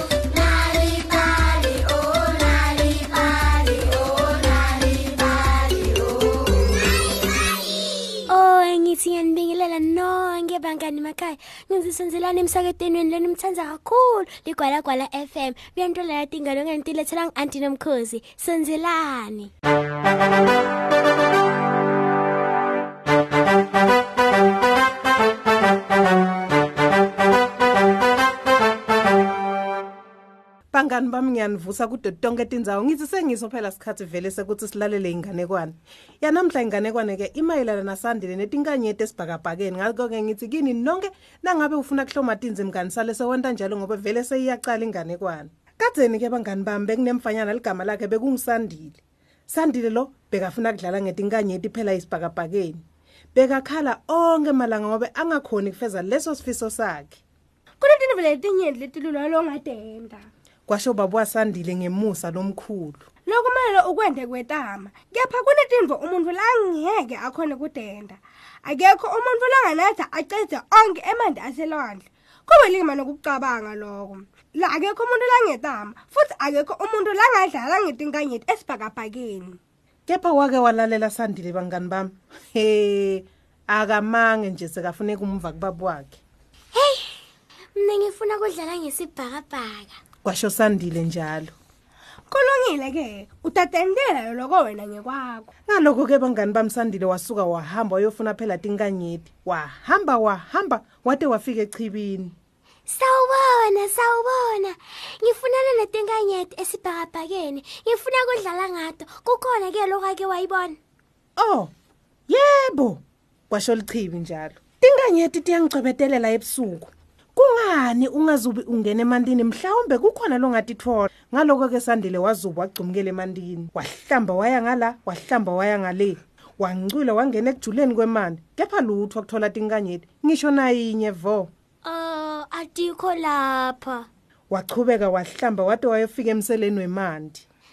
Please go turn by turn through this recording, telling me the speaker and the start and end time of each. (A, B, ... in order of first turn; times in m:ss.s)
0:00.8-0:04.3 A
0:08.3-0:19.5 A
0:30.7-0:52.8 B
0:53.3-0:57.2 B
0:57.8-1:00.3 C
1:00.7-1:03.0 B
1:03.2-1:19.6 C
1:20.1-1:26.2 B
1:26.7-1:27.2 A
1:27.7-1:30.0 A
1:30.2-1:31.5 B
1:32.3-1:35.5 C
1:35.7-1:42.3 B
1:42.9-1:50.8 A
1:51.4-1:51.7 B
1:52.3-2:11.5 B
2:11.8-2:14.1 A
2:14.5-2:17.4 B